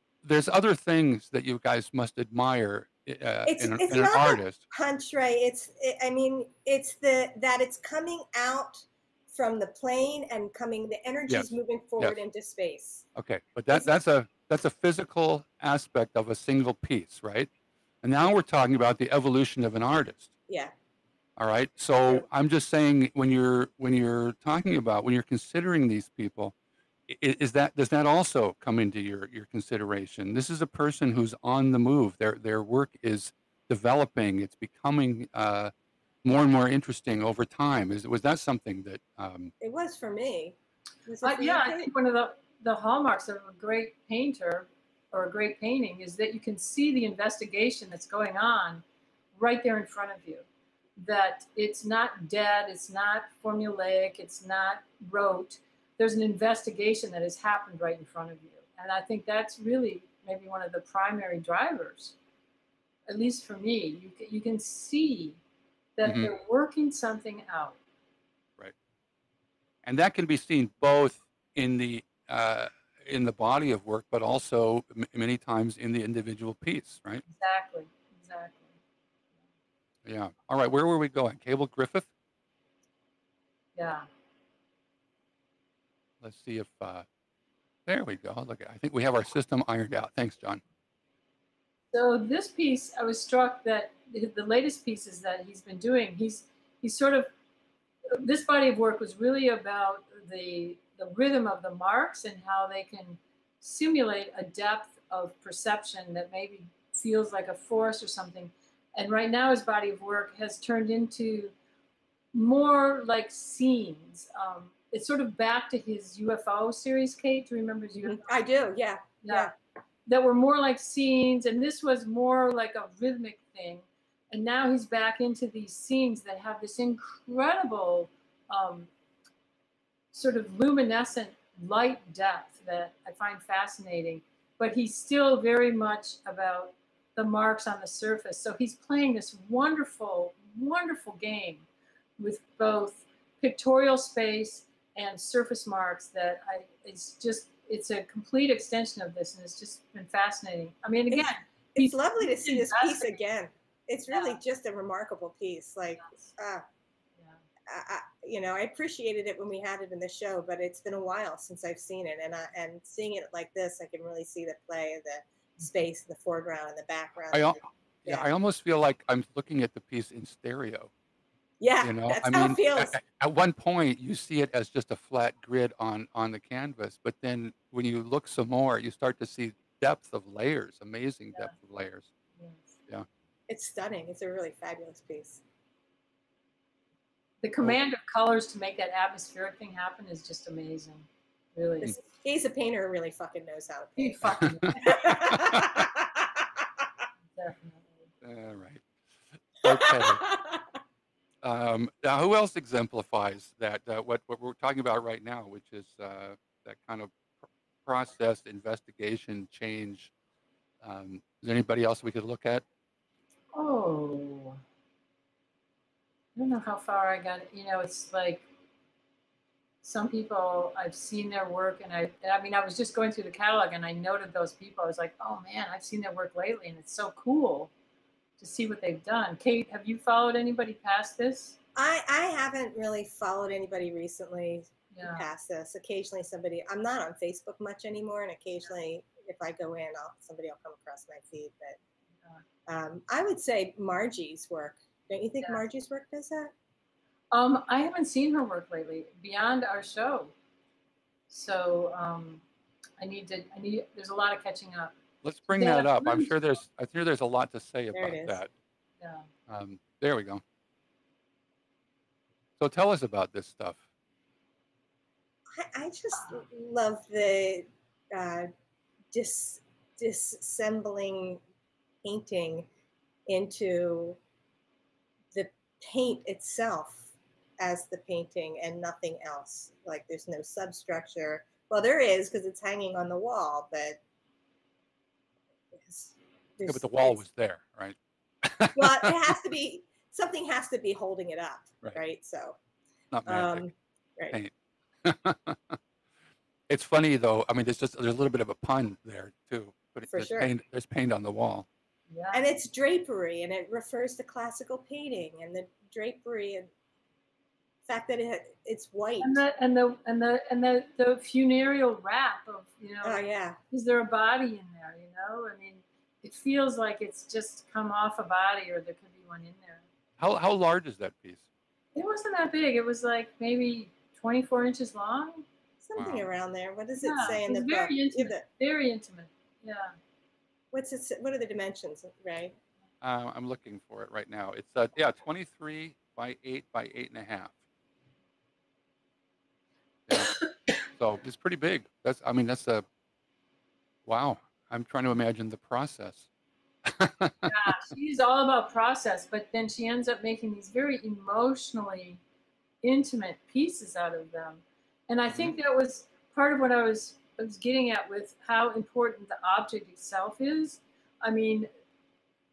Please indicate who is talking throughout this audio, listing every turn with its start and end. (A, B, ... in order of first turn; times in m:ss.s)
0:00.2-0:04.6 A
0:03.4-0:13.0 B
0:11.3-0:12.2 A
0:13.1-0:17.5 A
0:18.0-0:20.3 A
0:20.5-0:20.7 B
0:21.4-0:26.5 A
0:27.1-0:35.7 A
0:36.2-0:39.5 A
0:39.6-0:41.9 B
0:41.2-0:48.8 C
0:49.3-0:50.4 C
0:51.0-1:02.2 C
1:03.1-1:05.4 C
1:06.0-1:07.8 C
1:06.0-1:06.3 A
1:09.8-1:17.2 A
1:17.3-1:18.7 C
1:20.0-1:22.1 A
1:23.8-1:24.1 C
1:26.2-1:27.0 A
1:27.9-1:30.6 A
1:31.9-1:37.3 C
1:38.1-1:51.5 C
1:52.3-1:58.2 C
1:58.0-1:59.5 B
1:59.2-1:59.5 C
2:00.0-2:08.9 C
2:10.1-2:21.6 C
2:22.2-2:33.2 C
2:31.1-2:36.6 B
2:34.1-2:34.4 C
2:37.7-2:48.3 B
2:47.3-2:50.9 A
2:51.6-2:53.0 B
2:51.8-3:02.1 A
3:02.4-3:02.7 C
3:03.5-3:05.4 B
3:07.4-3:12.0 C
3:11.8-3:16.9 B
3:14.0-3:15.4 C
3:14.4-3:14.7 A
3:15.4-3:15.7 A
3:17.4-3:18.0 C
3:18.2-3:20.3 A
3:19.7-3:20.6 B
3:21.4-3:27.1 A
3:27.8-3:30.1 A
3:30.8-3:32.6 A
3:33.5-3:34.6 C
3:36.4-3:38.4 C
3:39.8-3:47.7 C
3:48.4-3:51.6 C
3:51.8-4:01.8 B
3:54.9-3:55.3 C
4:02.7-4:06.5 B
4:07.3-4:10.3 C
4:11.3-4:12.4 C
4:13.0-4:14.9 C
4:15.2-4:18.5 A
4:15.5-4:16.3 C
4:17.9-4:18.4 B
4:19.0-4:19.3 C
4:19.5-4:20.4 A
4:22.6-4:23.8 A
4:25.5-4:28.5 B
4:29.1-4:31.4 B
4:32.0-4:32.7 B
4:33.3-4:34.2 B
4:35.3-4:44.0 B
4:45.7-4:47.2 B
4:46.6-4:49.2 A
4:48.8-4:52.6 B
4:53.1-4:53.7 A
4:53.2-4:54.4 B
4:55.0-4:55.8 A
4:56.7-5:01.6 A
5:00.1-5:00.5 B
5:02.1-5:02.4 C
5:02.3-5:06.7 B
5:07.9-5:09.4 B
5:09.2-5:19.8 C
5:13.0-5:13.6 B
5:20.2-5:21.4 A
5:21.9-5:25.4 C
5:25.8-5:28.4 B
5:26.0-5:26.3 A
5:27.0-5:29.9 C
5:30.7-5:32.6 B
5:33.0-5:37.6 A
5:40.1-5:42.8 A
5:44.0-5:46.3 A
5:46.8-5:47.7 A
5:47.4-5:52.2 C
5:52.8-6:01.7 C